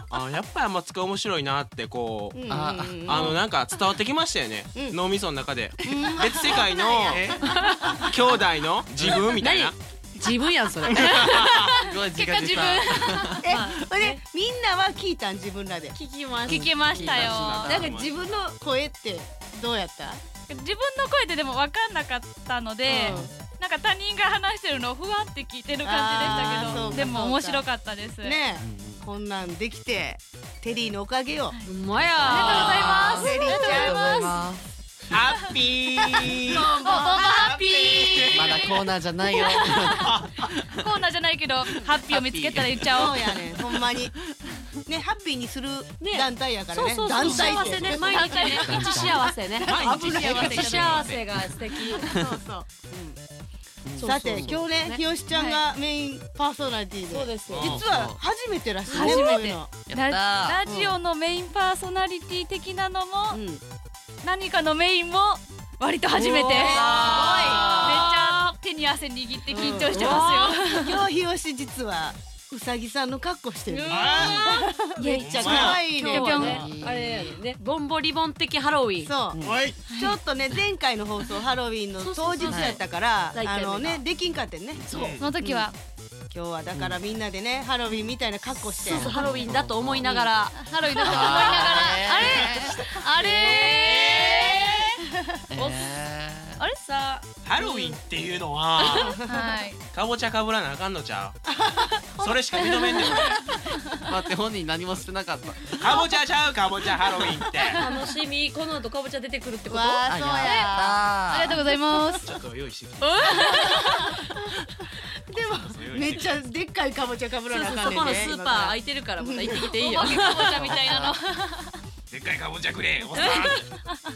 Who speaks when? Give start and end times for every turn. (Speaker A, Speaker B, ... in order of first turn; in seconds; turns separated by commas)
Speaker A: 0.1-2.5, Speaker B: 2.3-3.4, Speaker C: 2.5-3.4, Speaker A: 3.0-7.4, Speaker B: 4.7-5.0, Speaker B: 5.8-7.3, Speaker D: 6.5-7.2, Speaker C: 7.1-7.4, Speaker E: 7.4-8.0, Speaker B: 7.8-8.2, Speaker A: 8.0-9.8, Speaker E: 9.4-11.4, Speaker A: 10.9-11.7, Speaker D: 11.4-13.4, Speaker C: 11.7-13.5, Speaker B: 13.4-16.0, Speaker E: 13.5-14.2, Speaker E: 15.9-17.7, Speaker C: 16.5-18.0, Speaker D: 16.5-17.7, Speaker A: 17.0-18.4, Speaker B: 17.6-20.2, Speaker D: 20.5-28.4, Speaker B: 22.9-23.3, Speaker E: 22.9-23.3, Speaker C: 23.1-23.3, Speaker B: 25.8-27.6, Speaker C: 26.2-27.1, Speaker B: 28.2-31.6, Speaker C: 28.6-29.0, Speaker E: 31.6-33.3, Speaker C: 31.9-34.7, Speaker D: 32.2-34.4, Speaker B: 32.4-34.2, Speaker A: 35.1-38.6, Speaker B: 35.7-37.1, Speaker E: 36.6-37.3, Speaker D: 36.8-40.1, Speaker C: 38.3-40.5, Speaker A: 39.8-40.5, Speaker D: 40.8-43.2, Speaker C: 41.8-43.5, Speaker B: 42.9-44.1, Speaker B: 44.9-49.0, Speaker E: 46.0-52.1, Speaker D: 47.2-48.9, Speaker C: 48.6-52.2, Speaker B: 49.5-50.7, Speaker A: 49.7-51.0, Speaker D: 49.8-51.1, Speaker B: 52.0-53.2, Speaker C: 53.9-54.6, Speaker E: 54.0-55.0, Speaker B: 54.0-59.7, Speaker D: 55.3-55.6, Speaker E: 57.1-57.9, Speaker A: 57.5-57.8, Speaker C: 57.6-58.2, Speaker D: 58.9-63.4, Speaker C: 59.0-60.6, Speaker B: 60.6-61.0, Speaker B: 63.3-63.6, Speaker D: 64.2-71.0, Speaker E: 66.1-68.4, Speaker C: 66.7-68.1, Speaker B: 66.7-67.8, Speaker E: 69.5-70.8, Speaker B: 69.6-76.7, Speaker E: 73.7-74.9, Speaker A: 73.9-74.5, Speaker D: 75.0-76.7, Speaker A: 75.2-75.8, Speaker E: 75.4-79.1, Speaker C: 76.3-77.3, Speaker B: 79.0-84.8, Speaker C: 79.3-79.6, Speaker A: 79.4-79.9, Speaker D: 79.9-80.2, Speaker E: 82.0-84.0, Speaker C: 82.5-82.8, Speaker A: 84.8-85.3, Speaker D: 85.2-85.8, Speaker B: 85.4-85.7, Speaker B: 86.3-89.3, Speaker E: 88.8-95.0, Speaker C: 88.8-90.3, Speaker D: 90.5-94.7, Speaker C: 91.0-92.8, Speaker A: 93.8-94.7, Speaker C: 95.5-96.6, Speaker E: 95.5-95.9, Speaker E: 96.6-98.0, Speaker A: 97.4-99.1, Speaker E: 98.8-99.1, Speaker B: 98.8-99.6, Speaker D: 99.2-99.8, Speaker A: 99.9-101.4, Speaker B: 101.5-103.3, Speaker A: 102.2-103.5, Speaker D: 103.7-104.0, Speaker C: 104.0-106.0, Speaker A: 105.7-107.8, Speaker B: 107.0-107.8, Speaker E: 107.8-110.2, Speaker B: 109.7-111.0, Speaker C: 110.0-111.6, Speaker D: 110.3-112.3, Speaker A: 112.2-113.7, Speaker E: 113.0-114.1, Speaker B: 113.5-119.7, Speaker A: 115.3-116.3, Speaker E: 117.5-120.7, Speaker D: 119.8-121.8, Speaker C: 120.1-121.1, Speaker A: 122.1-123.7, Speaker E: 123.1-123.6, Speaker D: 123.6-124.0